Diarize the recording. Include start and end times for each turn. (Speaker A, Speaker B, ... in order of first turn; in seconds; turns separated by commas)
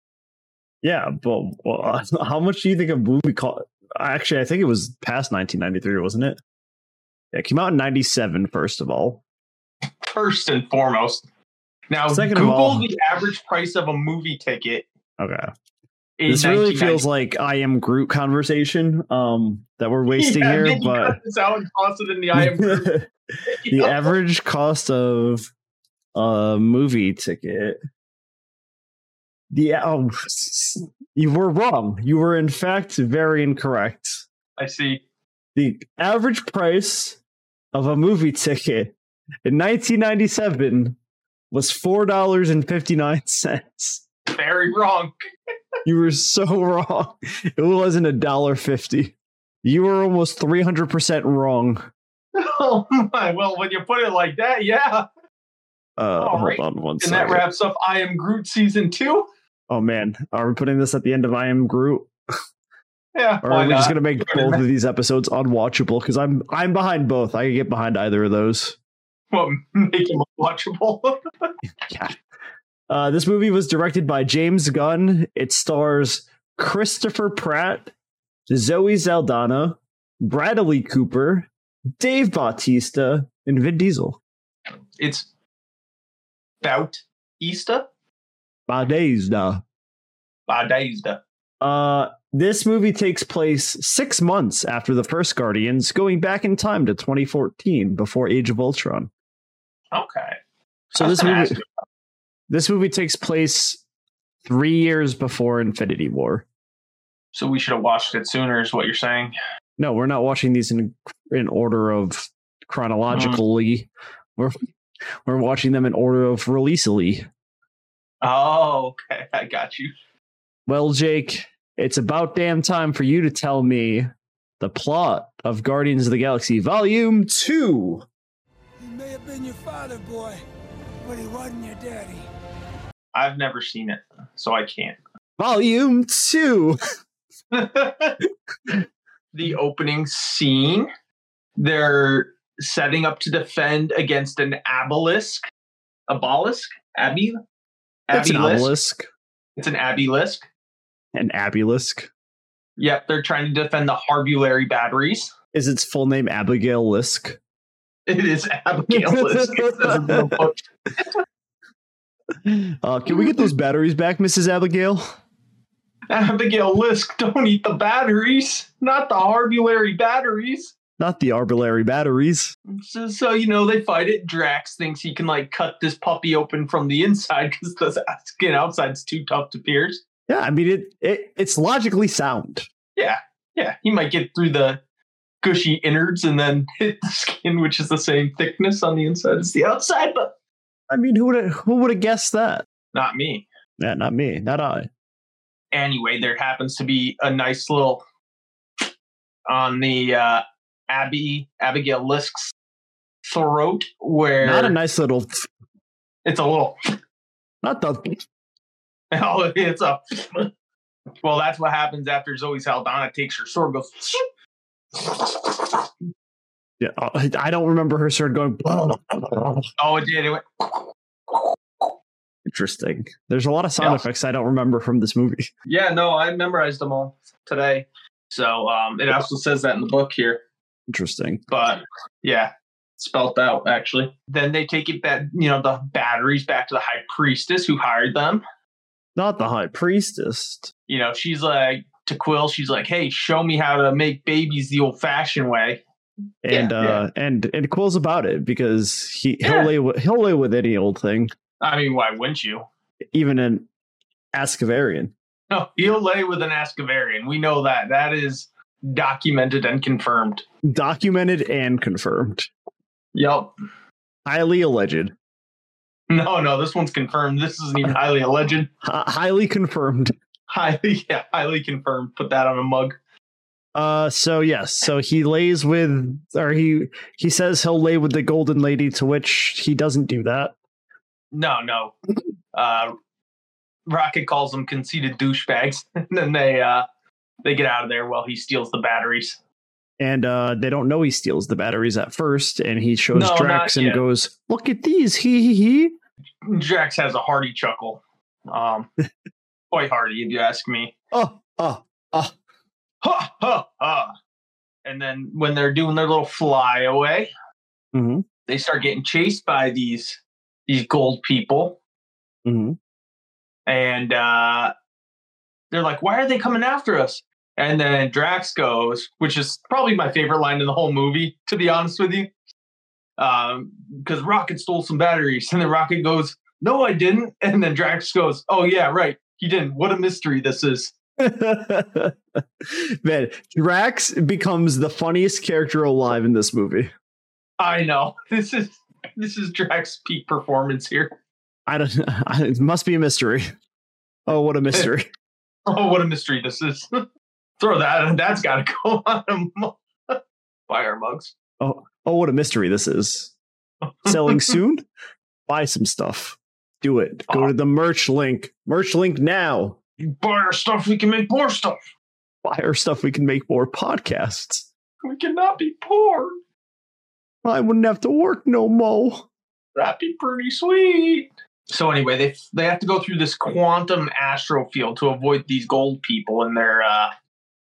Speaker A: 0.8-6.4, Speaker A: 7.3-9.2, Speaker B: 10.0-11.2, Speaker B: 11.9-14.8, Speaker A: 12.1-12.9, Speaker A: 15.2-15.5, Speaker B: 16.2-17.0, Speaker A: 16.3-21.2, Speaker B: 20.1-22.9, Speaker A: 22.4-23.1, Speaker B: 23.4-24.1, Speaker A: 23.7-25.5, Speaker A: 26.1-27.8, Speaker A: 29.5-34.2, Speaker B: 34.6-35.0, Speaker A: 35.5-37.2, Speaker A: 37.7-38.9, Speaker A: 39.4-41.0, Speaker A: 41.5-44.0, Speaker B: 44.3-45.1, Speaker A: 45.8-51.8, Speaker B: 52.3-55.0, Speaker A: 56.0-57.4, Speaker B: 56.2-59.3, Speaker A: 59.7-62.1, Speaker B: 63.1-64.6, Speaker A: 63.4-68.8, Speaker B: 69.3-71.5, Speaker A: 71.9-72.2, Speaker A: 72.9-77.9, Speaker A: 78.5-84.2, Speaker B: 85.0-85.3, Speaker B: 86.6-87.9, Speaker A: 88.7-89.6, Speaker B: 90.5-91.2, Speaker A: 91.6-99.1, Speaker B: 99.9-100.4, Speaker B: 100.9-101.7, Speaker A: 101.0-101.6, Speaker A: 102.5-103.8, Speaker A: 104.4-106.4, Speaker B: 107.3-109.3, Speaker A: 109.8-114.5, Speaker B: 113.1-113.4, Speaker A: 115.2-117.3, Speaker B: 118.2-119.9, Speaker A: 120.7-124.1, Speaker A: 124.6-128.0, Speaker C: 128.8-130.4, Speaker C: 131.0-132.3, Speaker B: 133.1-135.0, Speaker A: 135.4-136.8, Speaker B: 137.5-138.2, Speaker B: 139.3-140.9, Speaker B: 141.6-145.4, Speaker B: 146.1-147.4, Speaker B: 148.1-148.7, Speaker A: 148.1-149.1, Speaker B: 149.6-150.4, Speaker A: 151.1-152.1, Speaker B: 152.8-155.3, Speaker A: 155.5-157.4, Speaker B: 158.1-161.1, Speaker A: 158.9-160.4, Speaker A: 162.4-165.0, Speaker B: 166.1-170.7, Speaker A: 171.0-172.5, Speaker B: 172.7-180.0, Speaker A: 180.3-182.7, Speaker B: 182.9-184.8, Speaker B: 185.4-190.3, Speaker A: 190.9-192.6, Speaker B: 192.9-193.4, Speaker A: 193.8-194.9, Speaker B: 195.7-198.0, Speaker B: 199.5-202.5, Speaker B: 203.2-204.7, Speaker A: 204.4-205.5, Speaker B: 206.2-206.8, Speaker A: 207.6-208.2, Speaker B: 209.1-210.5, Speaker B: 211.2-214.2, Speaker B: 214.9-215.8, Speaker A: 216.8-219.7, Speaker B: 219.8-221.9, Speaker A: 222.4-225.5, Speaker B: 223.8-224.0, Speaker B: 225.7-230.4, Speaker A: 230.9-231.4, Speaker B: 231.5-238.4, Speaker A: 239.2-240.7, Speaker B: 240.9-245.8, Speaker A: 246.4-251.3, Speaker B: 246.5-247.0, Speaker B: 249.4-249.7, Speaker B: 251.6-252.6, Speaker A: 253.1-253.7, Speaker A: 254.3-255.1, Speaker B: 255.5-260.4, Speaker A: 260.6-262.5, Speaker B: 263.1-263.5, Speaker A: 264.2-265.1, Speaker B: 266.1-268.7, Speaker A: 268.8-270.1, Speaker B: 270.5-273.0, Speaker A: 273.7-280.5, Speaker B: 281.3-281.9, Speaker B: 282.5-282.9, Speaker B: 283.9-286.8, Speaker B: 287.4-289.4, Speaker A: 290.0-295.9, Speaker B: 293.1-294.0, Speaker B: 296.4-298.9, Speaker B: 299.7-300.9, Speaker A: 301.1-302.3, Speaker B: 303.0-304.1, Speaker B: 304.8-307.3, Speaker A: 307.9-308.2, Speaker B: 308.5-311.8, Speaker A: 312.4-312.8, Speaker B: 313.7-314.7, Speaker B: 315.7-322.3, Speaker B: 323.2-330.9, Speaker A: 331.2-336.9, Speaker B: 337.6-341.1, Speaker A: 341.7-343.5, Speaker A: 344.3-345.1, Speaker B: 345.7-347.0, Speaker B: 347.6-351.3, Speaker A: 351.6-353.3, Speaker B: 353.8-354.6, Speaker A: 354.1-354.8, Speaker A: 355.5-359.8, Speaker B: 360.0-361.8, Speaker A: 362.4-364.7, Speaker B: 365.0-366.3, Speaker A: 367.4-369.2, Speaker B: 369.8-377.1